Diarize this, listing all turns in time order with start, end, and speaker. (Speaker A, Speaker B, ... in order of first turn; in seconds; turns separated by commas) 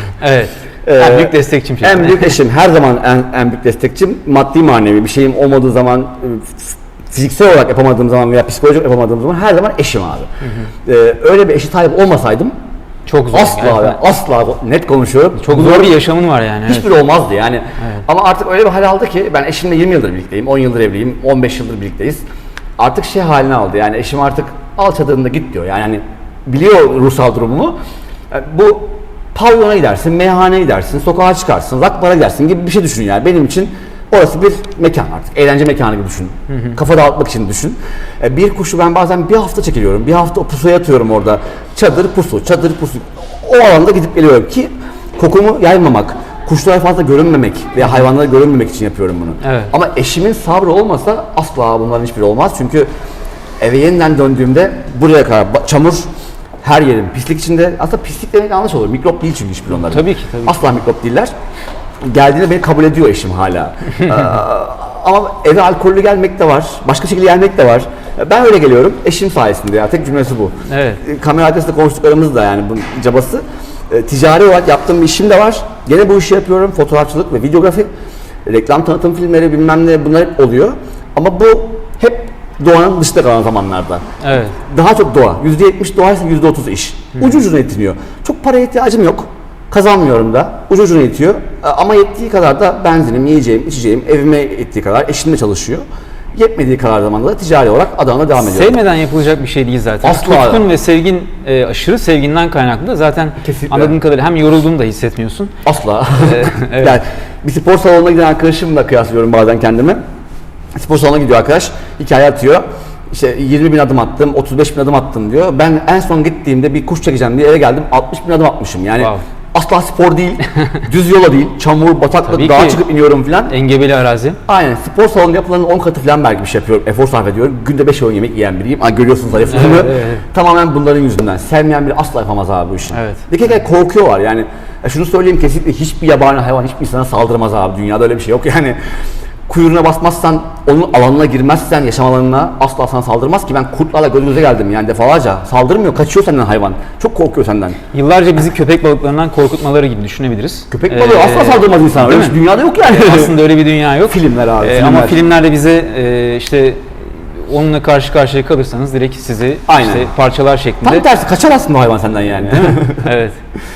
Speaker A: 0.2-2.3, Speaker B: 0.8-10.3, Speaker A: 10.4-10.7, Speaker B: 10.8-12.5, Speaker A: 13.1-14.0, Speaker B: 13.3-16.0, Speaker A: 15.4-16.9, Speaker B: 16.7-22.2, Speaker B: 22.8-27.8, Speaker B: 28.3-52.9, Speaker A: 36.5-36.8, Speaker A: 49.4-49.7, Speaker B: 53.6-56.1, Speaker B: 56.6-61.3, Speaker A: 59.7-60.6, Speaker B: 62.0-77.9, Speaker A: 70.7-71.0, Speaker B: 78.5-84.0, Speaker A: 84.2-84.6, Speaker B: 84.7-95.8, Speaker B: 96.3-98.8, Speaker A: 98.4-105.5, Speaker B: 100.0-100.7, Speaker B: 103.4-104.0, Speaker B: 105.7-110.0, Speaker A: 106.2-107.0, Speaker B: 110.8-123.5, Speaker A: 122.3-122.8, Speaker A: 123.5-124.4, Speaker B: 124.5-138.8, Speaker A: 129.5-130.2, Speaker A: 132.9-133.2, Speaker B: 139.5-147.8, Speaker A: 147.9-161.0, Speaker B: 150.7-153.4, Speaker B: 154.1-155.2, Speaker B: 159.7-160.1, Speaker B: 160.8-163.1, Speaker A: 162.5-163.4